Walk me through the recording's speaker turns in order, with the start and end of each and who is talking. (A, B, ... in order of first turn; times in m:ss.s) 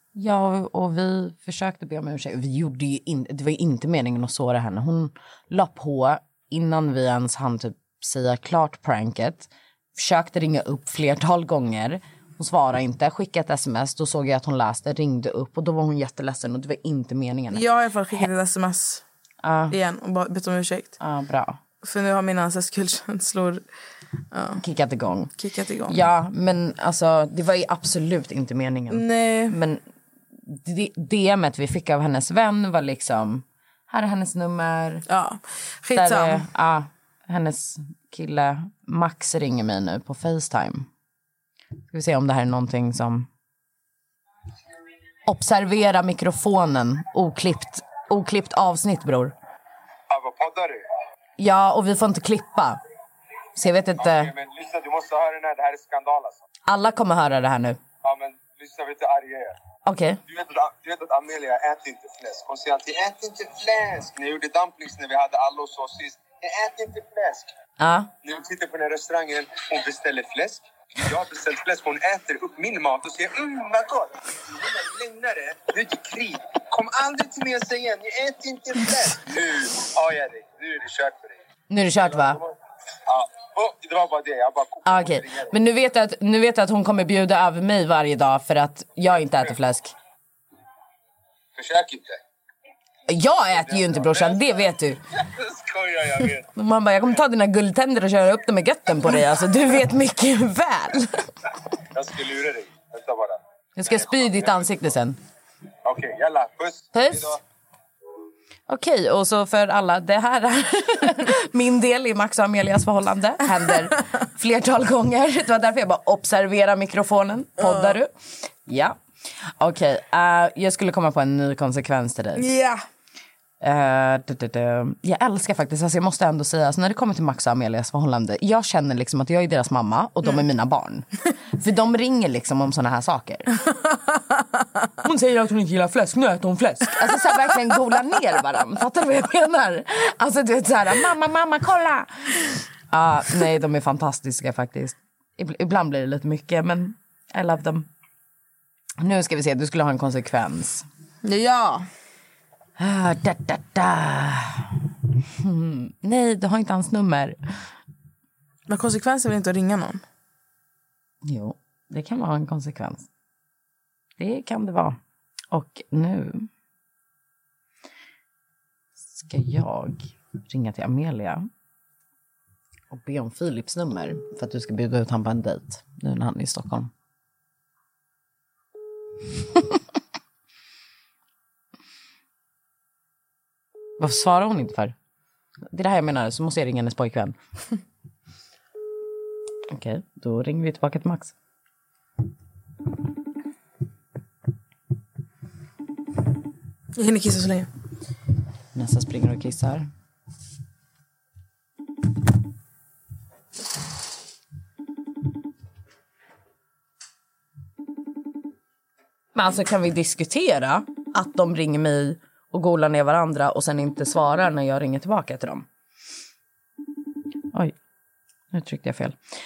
0:00.1-0:17.6 A
0:17.5-0:19.0 B
0:19.4-0:19.8 A
0:19.7-0:20.9 B
0:21.0-0:21.6 A
0:21.8-0:23.6 B
0:24.3-0:24.6 B
0:24.6-0:25.3 A
0:25.4-0:26.0 B
0:25.9-0:29.8 A
0:28.9-0:29.6 B
0:30.5-0:35.0 A
0:35.1-0:36.4 B
0:35.9-0:40.9 A
0:41.9-0:43.3 A
0:45.2-0:49.3 A
0:50.1-0:50.8 C
0:51.4-0:52.8 A
0:53.6-0:54.3 A
0:54.0-0:56.4 C
0:56.7-0:57.8 A
0:58.0-0:59.5 C
0:59.8-1:00.2 A
1:00.3-1:07.5 C
1:07.8-1:08.1 A
1:08.2-1:21.4 C
1:21.7-1:22.4 A
1:23.1-1:25.5 C
1:24.8-1:29.9 A
1:31.6-1:32.2 C
1:33.1-1:35.0 A
1:33.7-1:34.6 C
1:35.1-1:36.5 C
1:36.6-1:41.3 A
1:41.9-1:44.7 C
1:43.8-1:45.2 A
1:45.8-1:47.4 C
1:46.9-1:47.4 A
1:48.7-1:58.1 A
1:57.6-1:58.0 B
1:58.7-1:59.0 A
1:59.6-2:02.4 A
2:02.4-2:02.8 B
2:03.6-2:13.5 A
2:15.0-2:27.9 A
2:29.0-2:30.8 A
2:31.2-2:31.9 B
2:32.8-2:34.7 A
2:35.4-2:37.4 A
2:38.7-2:40.0 B
2:41.2-2:43.1 A
2:44.2-2:45.0 A
2:45.5-2:46.5 A
2:49.2-2:51.5 A
2:52.9-2:56.9 A
3:04.0-3:04.9 A
3:05.7-3:07.4 A
3:09.7-3:11.3 A
3:17.0-3:17.7 B
3:18.7-3:19.9 A
3:29.3-3:35.6 A
3:38.5-3:39.2 A